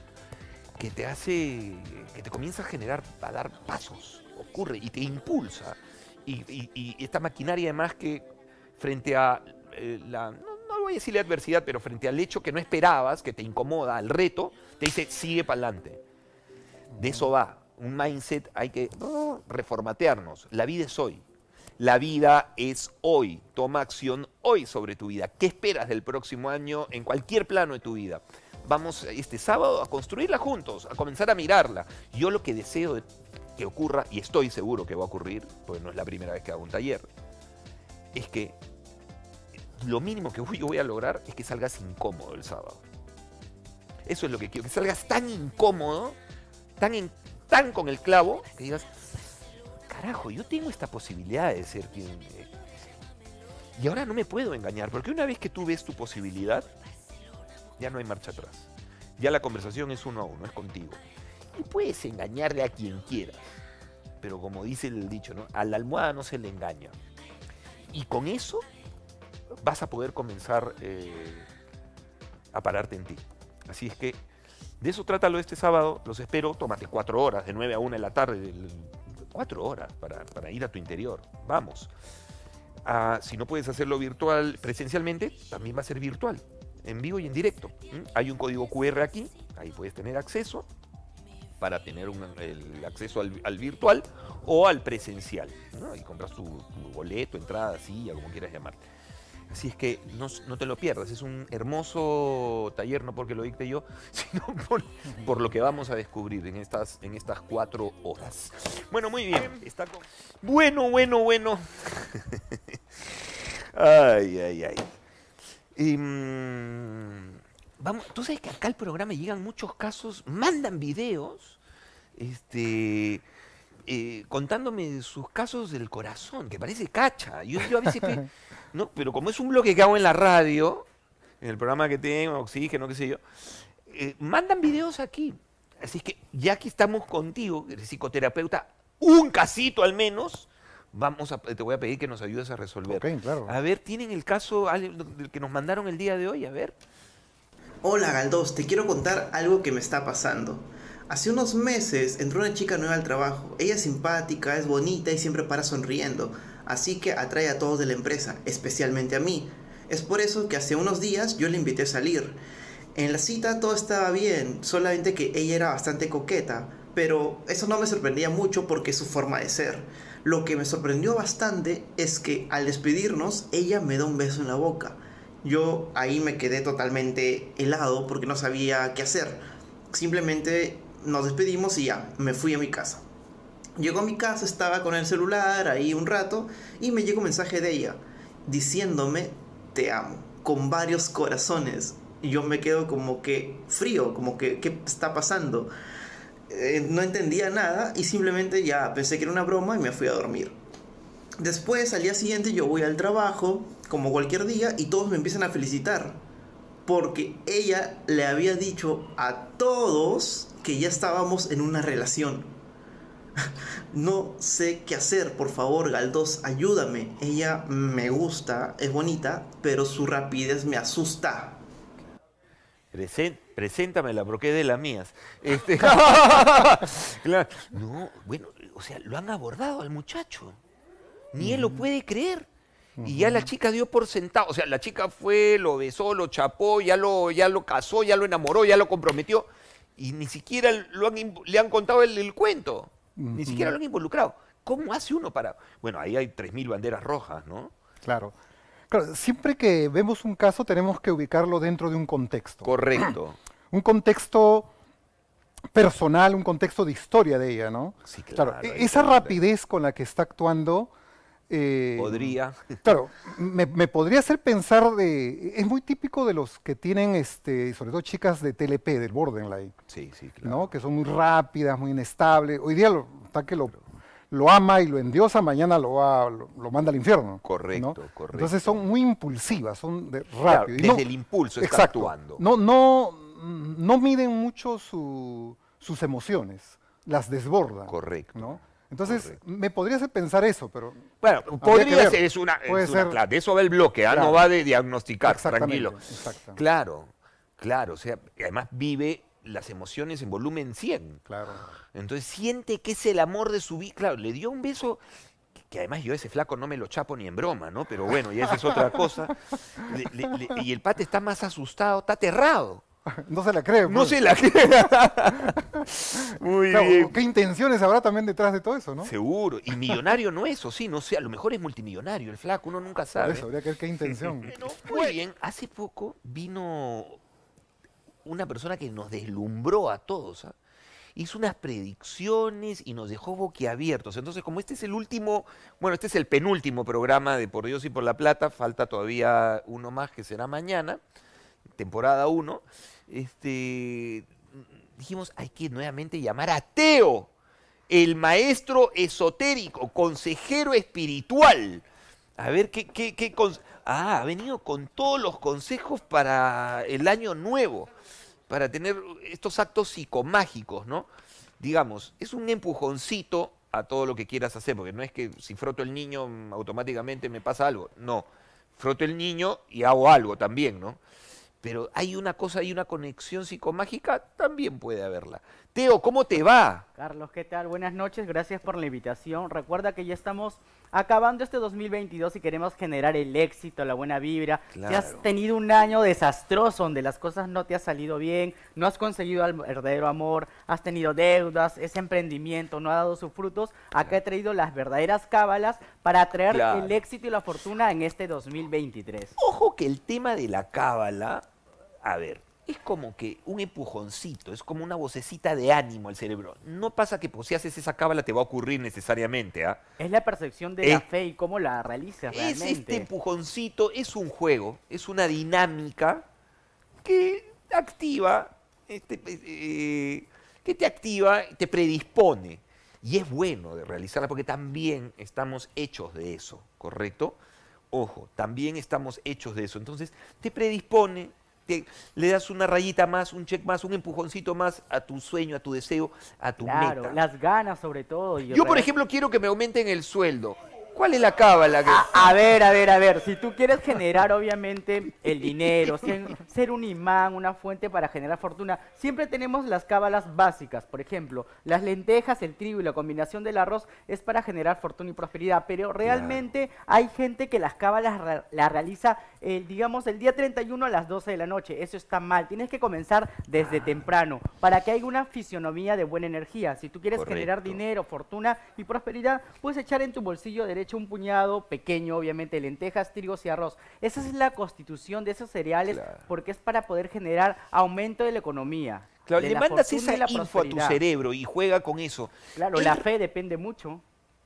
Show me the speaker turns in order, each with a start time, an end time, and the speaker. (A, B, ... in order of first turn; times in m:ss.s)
0:00.8-0:08.3 A
0:08.8-0:16.0 A
0:16.9-0:17.3 B
0:17.0-0:21.2 A
0:21.8-0:37.1 A
0:38.1-0:38.6 A
0:39.8-0:42.8 A
0:44.0-0:46.2 A
0:46.8-0:49.0 A
0:49.9-0:52.5 A
0:53.8-0:56.7 A
0:57.8-1:01.0 A
1:01.5-1:03.6 A
1:04.2-1:07.0 A
1:07.9-1:08.6 A
1:09.6-1:11.5 A
1:12.5-1:14.2 A
1:14.8-1:21.9 A
1:22.8-1:30.7 A
1:31.6-1:38.8 A
1:39.5-1:54.9 A
1:55.7-2:01.6 A
2:02.2-2:03.2 A
2:03.9-2:10.8 A
2:11.4-2:26.8 A
2:22.9-2:23.5 B
2:27.8-2:42.4 C
2:42.9-3:03.0 C
3:03.8-3:15.7 C
3:16.5-3:20.6 C
3:21.4-3:26.2 C
3:26.8-3:32.6 C
3:33.4-3:41.6 C
3:42.9-3:50.6 A
3:51.3-3:52.5 A
3:51.4-3:51.8 B
3:53.0-3:53.5 B
3:53.0-4:07.7 A
4:03.2-4:03.8 B
4:08.0-4:08.4 B
4:08.9-4:13.1 B
4:12.6-4:13.4 A
4:13.7-4:14.7 B
4:15.7-4:20.9 B
4:18.0-4:19.4 A
4:21.5-4:29.7 B
4:22.0-4:22.9 A
4:29.9-4:30.7 A
4:30.4-4:41.1 B
4:37.4-4:38.8 A
4:40.5-4:42.4 A
4:41.6-4:53.2 B
4:47.9-4:49.3 A
4:51.2-4:56.0 A
4:54.1-4:54.4 B
4:55.2-4:56.6 B
4:56.5-5:01.2 A
5:01.3-5:01.6 B
5:01.9-5:05.0 A
5:05.6-5:12.8 A
5:13.0-5:14.2 B
5:13.8-5:17.2 A
5:15.4-5:15.8 B
5:16.7-5:19.1 B
5:19.0-5:23.5 A
5:23.2-5:25.1 B
5:24.0-5:27.2 A
5:28.2-5:30.5 A
5:31.2-5:41.0 A
5:41.8-5:47.3 A
5:47.9-5:51.8 A
5:52.4-5:57.9 A
5:58.5-6:01.1 A
6:01.6-6:11.0 A
6:11.6-6:16.8 A
6:17.0-6:39.3 D
6:24.7-6:25.2 A
6:36.5-6:36.9 A
6:39.4-6:41.5 A
6:42.0-6:49.8 A
6:50.0-6:53.1 D
6:52.3-6:56.2 A
6:57.0-7:07.4 A
7:07.9-7:17.2 A
7:16.6-7:18.9 D
7:18.5-7:22.1 A
7:21.8-8:01.0 D
7:36.0-7:36.4 A
7:47.1-7:47.8 A
7:55.9-7:56.2 A
7:59.2-8:03.0 A
8:02.6-8:04.0 D